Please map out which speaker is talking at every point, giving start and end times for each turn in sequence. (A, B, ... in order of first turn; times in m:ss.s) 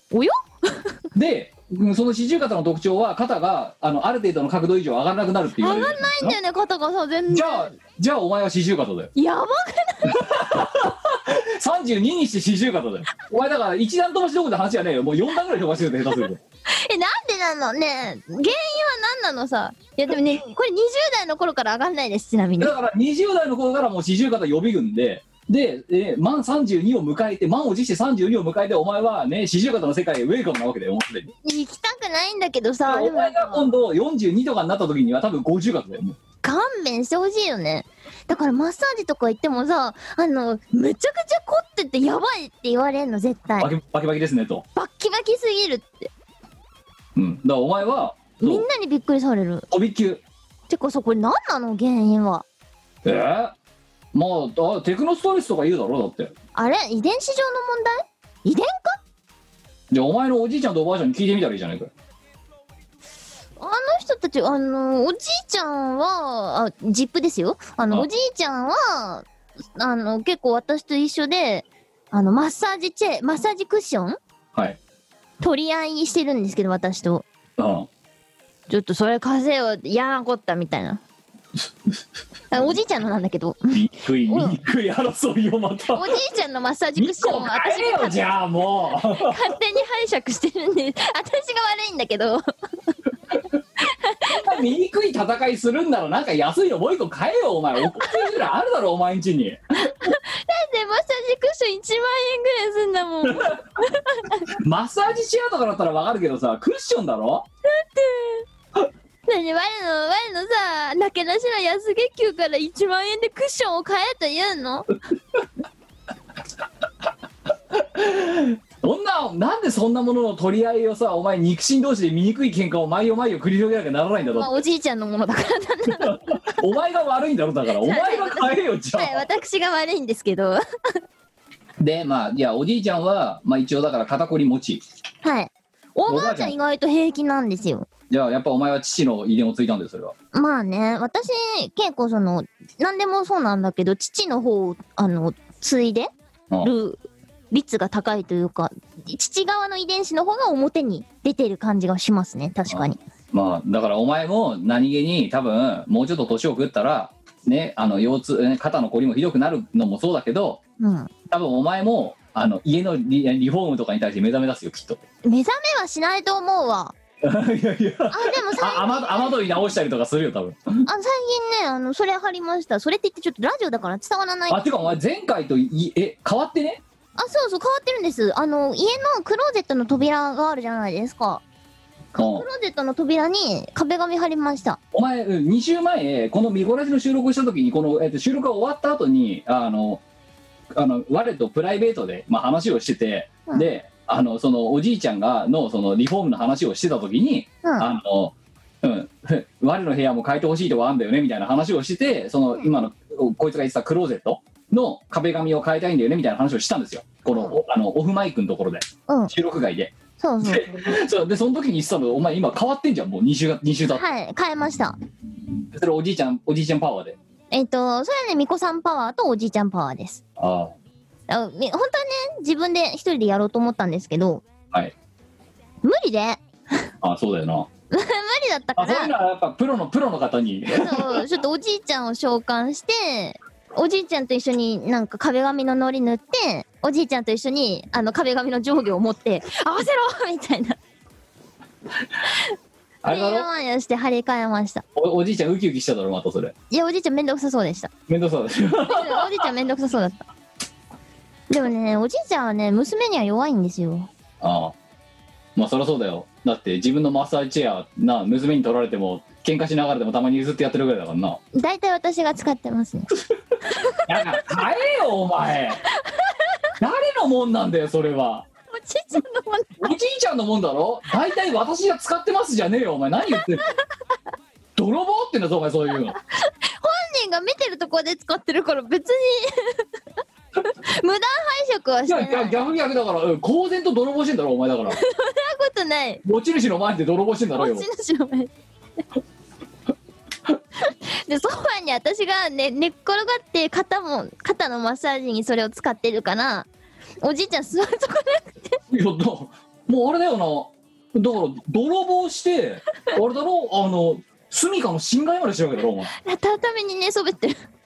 0:00.1-0:00.9 A
0:01.1-0:06.4 B
0:05.6-0:07.7 A
0:07.3-0:09.1 B
0:09.1-0:10.2 A
0:10.0-0:16.4 B
0:16.7-0:22.7 A
0:22.6-0:31.3 B
0:31.4-0:33.7 A
0:32.8-0:36.2 B
0:36.4-0:43.7 A
0:43.6-0:44.6 B
0:44.8-0:46.1 A
0:47.1-0:48.7 B
0:48.4-0:49.6 A
0:49.7-0:50.2 B
0:50.7-0:52.4 A
0:53.0-0:53.5 B
0:54.1-0:56.3 B
0:56.5-0:59.0 A
0:59.9-1:01.9 B
1:03.6-1:09.2 A
1:09.8-1:14.2 A
1:14.5-1:14.8 B
1:15.4-1:17.2 A
1:17.6-1:17.9 B
1:18.7-1:21.0 A
1:22.5-1:23.7 A
1:23.7-1:26.2 B
1:24.2-1:24.5 A
1:25.9-1:28.2 A
1:27.0-1:29.5 B
1:29.1-1:32.4 A
1:33.8-1:34.4 A
1:34.3-1:40.1 B
1:37.9-1:38.3 A
1:39.9-1:44.5 A
1:43.2-1:43.6 B
1:44.5-1:47.4 B
1:47.8-1:48.4 A
1:49.3-1:54.9 A
1:57.7-2:04.6 B
2:04.2-2:06.4 A
2:05.9-2:09.2 B
2:07.8-2:10.6 A
2:11.8-2:14.8 B
2:15.2-2:17.9 A
2:16.1-2:16.5 B
2:18.1-2:20.1 B
2:20.3-2:26.1 A
2:26.6-2:27.0 A
2:27.5-2:33.0 A
2:32.7-2:40.6 B
2:40.8-2:41.1 A
2:41.3-2:45.0 B
2:45.2-2:46.9 A
2:47.2-2:50.8 B
2:48.1-2:49.4 A
2:50.8-2:54.6 A
2:54.5-2:56.8 B
2:57.2-3:01.4 A
3:02.1-3:04.8 A
3:02.2-3:02.4 B
3:04.9-3:10.0 B
3:10.7-3:34.0 B
3:17.6-3:17.9 A
3:30.2-3:31.0 A
3:33.9-3:35.0 A
3:35.7-3:37.2 B
3:37.5-3:40.2 A
3:40.4-3:40.7 B
3:41.3-3:44.4 A
3:45.8-3:46.4 A
3:47.0-3:47.7 B
3:47.9-3:49.1 A
3:48.8-3:51.3 B
3:50.7-4:00.8 A
4:03.0-4:03.5 B
4:03.1-4:04.8 A
4:04.9-4:06.5 B
4:06.7-4:07.9 A
4:08.1-4:09.4 B
4:08.8-4:10.2 A
4:11.5-4:14.1 A
4:14.4-4:14.7 B
4:15.6-4:21.4 B
4:21.5-4:23.1 A
4:24.0-4:25.8 B
4:26.0-4:26.4 A
4:26.8-4:28.5 B
4:28.7-4:29.9 A
4:29.8-4:33.6 B
4:34.8-4:36.2 B
4:36.3-4:39.8 A
4:40.6-4:42.6 A
4:42.0-4:45.0 B
4:44.9-4:46.2 A
4:46.2-4:47.9 B
4:47.5-4:48.5 A
4:50.9-4:56.7 A
4:57.2-4:58.8 A
4:58.9-5:06.1 B
5:06.1-5:07.6 A